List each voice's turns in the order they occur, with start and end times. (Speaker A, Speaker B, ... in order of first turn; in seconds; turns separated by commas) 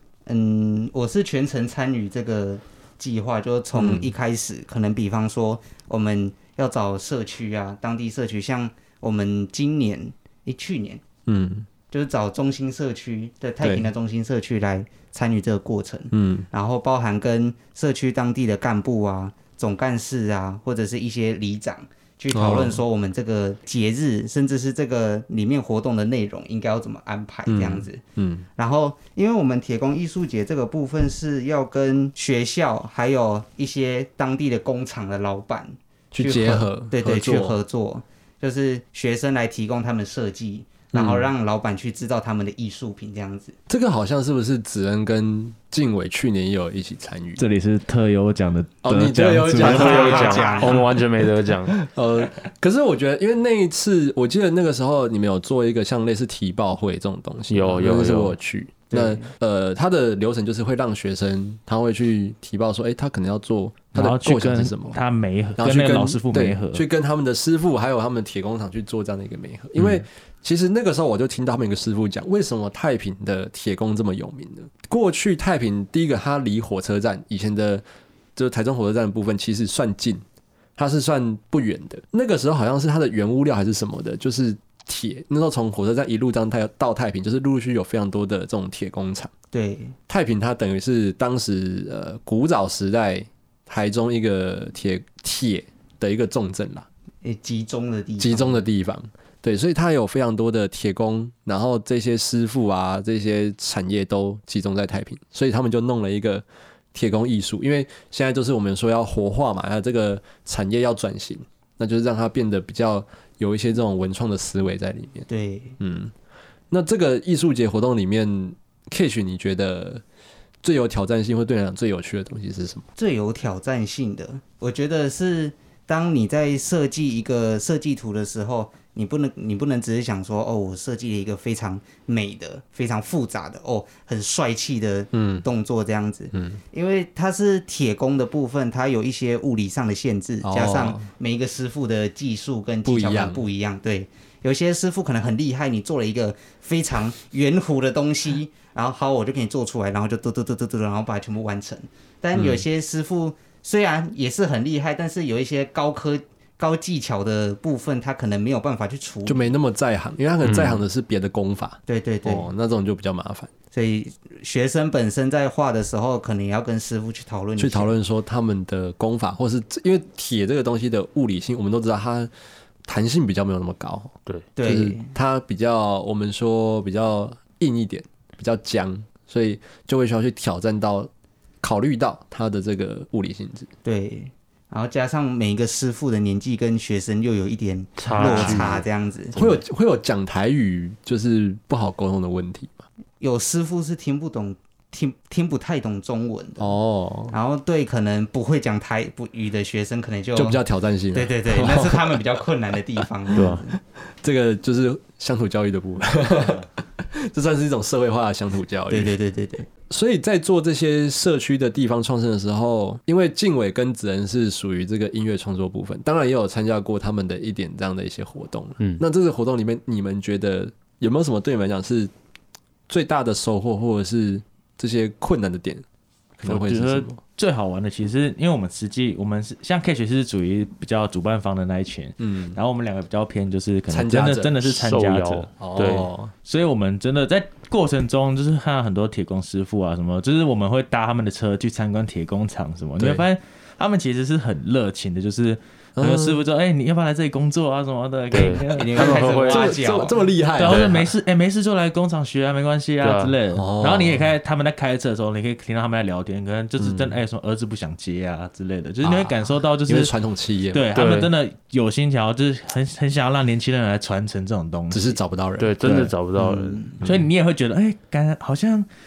Speaker A: 0.3-11.0, Speaker B: 3.8-4.1, Speaker B: 11.3-11.7, Speaker A: 11.9-28.0, Speaker B: 13.6-13.9, Speaker B: 16.1-16.5, Speaker B: 22.3-22.8, Speaker B: 27.5-28.5, Speaker A: 28.6-43.6, Speaker B: 36.1-37.6, Speaker B: 40.9-41.3, Speaker B: 43.7-47.4, Speaker C: 47.4-50.8, Speaker B: 48.8-50.5, Speaker A: 49.6-50.9, Speaker D: 49.6-51.8, Speaker B: 51.7-65.0, Speaker D: 57.5-58.4, Speaker A: 58.9-59.3, Speaker C: 63.9-66.8, Speaker B: 65.6-77.8, Speaker B: 78.4-80.2, Speaker B: 80.8-89.3, Speaker A: 89.5-90.0, Speaker B: 90.1-96.9, Speaker A: 97.2-98.6, Speaker B: 98.2-115.3, Speaker A: 115.3-115.8, Speaker B: 115.8-116.1, Speaker B: 116.7-120.0, Speaker B: 120.6-122.9, Speaker A: 123.0-159.5, Speaker B: 135.1-135.4, Speaker B: 136.3-136.6, Speaker B: 140.4-141.1, Speaker B: 142.8-143.4, Speaker B: 152.3-152.6, Speaker B: 159.3-163.5, Speaker D: 160.4-160.8, Speaker A: 161.9-162.5, Speaker A: 163.7-167.9, Speaker B: 167.6-172.3, Speaker B: 172.9-181.1, Speaker A: 174.6-175.1, Speaker B: 181.6-183.7, Speaker A: 183.8-189.6, Speaker D: 188.0-188.8, Speaker B: 188.2-188.8, Speaker B: 189.3-192.8, Speaker A: 193.2-196.7, Speaker B: 196.6-197.3, Speaker A: 197.3-200.6, Speaker B: 200.4-202.2, Speaker A: 201.1-203.8, Speaker B: 203.3-203.6, Speaker D: 203.3-203.6, Speaker B: 204.2-209.1, Speaker A: 208.9-209.7, Speaker B: 209.9-222.1, Speaker B: 222.9-225.8, Speaker B: 226.4-227.2, Speaker C: 226.5-235.5, Speaker B: 232.2-232.6, Speaker B: 233.9-234.6, Speaker D: 234.7-236.1, Speaker B: 235.6-236.3, Speaker C: 236.4-249.7, Speaker B: 243.0-243.2, Speaker B: 246.0-246.4, Speaker D: 248.3-249.7, Speaker A: 248.7-250.2, Speaker B: 249.5-250.9, Speaker C: 250.6-260.1, Speaker D: 250.7-251.1, Speaker D: 253.0-253.4, Speaker B: 253.5-254.3, Speaker B: 256.8-257.2, Speaker B: 259.0-260.9, Speaker C: 260.7-265.2, Speaker D: 260.9-261.3, Speaker B: 264.9-265.8, Speaker D: 265.6-266.9, Speaker C: 265.8-266.1, Speaker A: 266.4-267.0, Speaker C: 267.0-268.9, Speaker B: 267.0-267.3